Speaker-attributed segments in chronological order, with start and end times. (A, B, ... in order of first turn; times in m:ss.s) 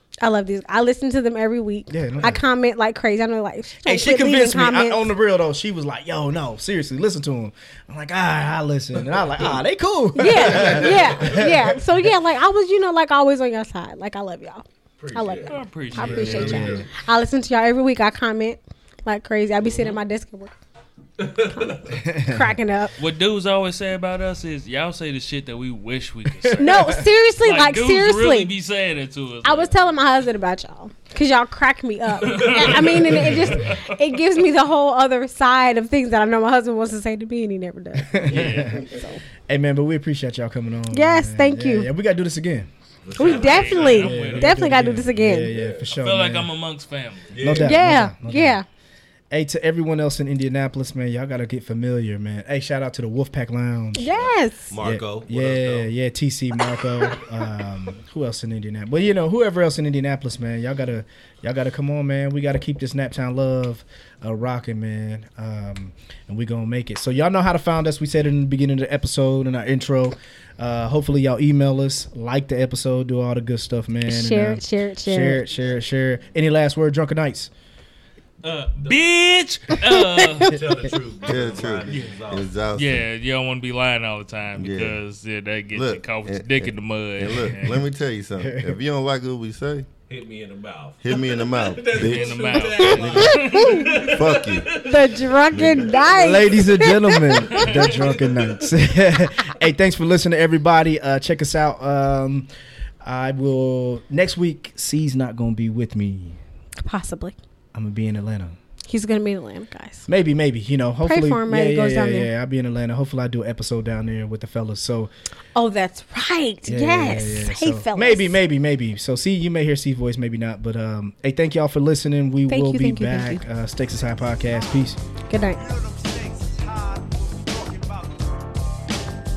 0:00.2-0:05.1 A
0:01.9-0:02.4 B
0:03.8-0:12.0 B
0:10.1-0:20.5 A
0:10.3-0:11.0 C
0:11.0-0:11.5 D
0:15.0-0:15.6 D
0:15.5-0:16.7 E
0:15.9-0:16.9 C
0:16.0-0:16.9 B
0:21.2-0:22.0 D
0:21.5-0:22.9 A
0:21.9-0:22.5 B
0:23.0-0:30.0 E
0:26.6-0:28.5 A
0:26.6-0:26.9 B
0:29.4-0:39.2 A
0:32.2-0:34.2 E
0:32.3-0:32.7 D
0:38.0-0:38.9 B
0:38.3-0:38.8 E
0:38.4-0:38.8 C
0:39.5-0:42.7 B
0:40.9-0:41.9 A
0:43.0-0:44.0 D
0:43.2-0:45.5 A
0:43.2-0:44.7 E
0:43.9-0:46.5 B
0:45.4-0:45.8 C
0:45.9-0:47.3 E
0:47.3-0:47.8 D
0:47.4-0:48.6 B
0:47.6-0:48.6 A
0:49.3-0:54.1 B
0:53.9-0:54.7 A
0:54.1-0:55.9 D
0:54.8-1:17.5 B
1:14.0-1:15.4 A
1:18.4-1:19.0 D
1:18.8-1:20.6 E
1:19.8-1:20.5 A
1:20.4-1:22.6 D
1:21.2-1:23.0 C
1:21.9-1:22.2 E
1:22.8-1:27.8 E
1:24.6-1:25.0 C
1:25.7-1:29.9 C
1:28.4-1:28.8 B
1:30.1-1:36.1 D
1:31.0-1:34.7 C
1:31.9-1:34.1 E
1:32.8-1:34.0 A
1:34.8-1:37.7 A
1:35.5-1:36.0 C
1:36.1-1:42.5 B
1:37.5-1:38.0 E
1:37.6-1:38.8 D
1:43.0-1:46.4 B
1:46.8-1:47.3 A
1:47.7-1:48.6 B
1:48.9-1:50.0 A
1:50.1-1:55.1 B
1:51.0-1:52.3 A
1:55.5-1:58.4 A
1:56.6-2:05.0 B
2:02.5-2:03.4 A
2:05.3-2:05.6 A
2:06.4-2:06.8 B